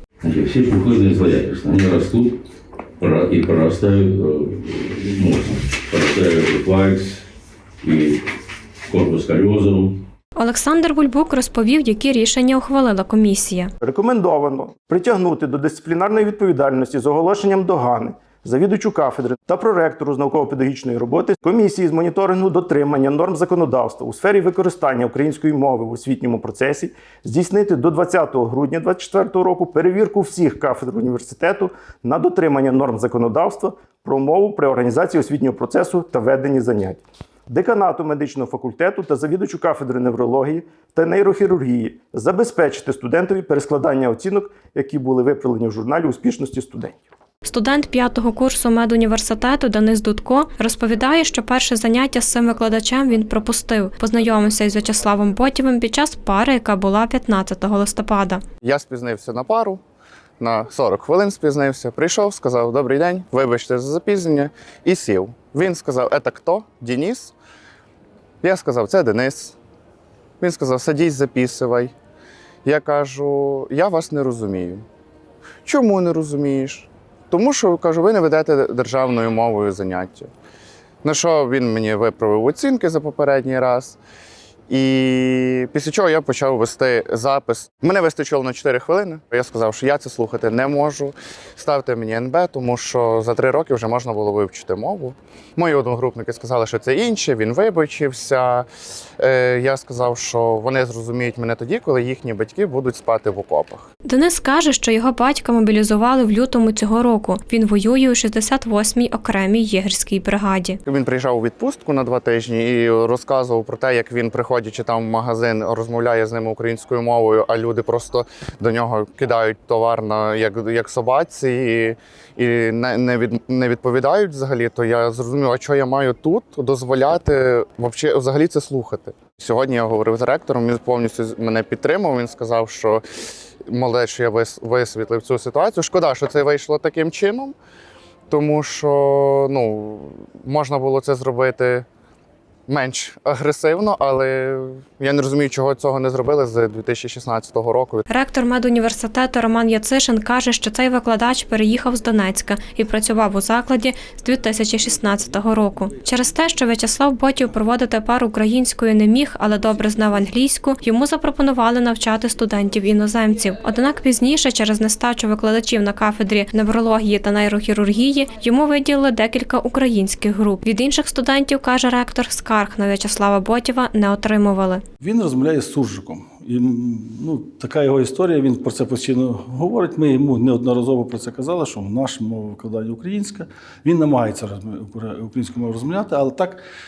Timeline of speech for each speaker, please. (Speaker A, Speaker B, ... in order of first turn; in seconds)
Speaker A: 0.2-2.4, 3.0-7.2, 7.8-8.2, 8.9-10.0
Speaker B: 10.4-13.7, 47.4-58.4, 104.0-110.8, 148.1-174.8
Speaker C: 13.8-47.0
Speaker D: 58.6-59.8, 60.4-67.3, 68.4-69.6, 70.4-71.9, 72.6-74.8, 75.7-80.3, 81.0-84.0, 84.7-103.9, 110.9-133.0, 133.7-137.6, 138.3-141.9, 142.7-148.1
Speaker E: 175.0-186.6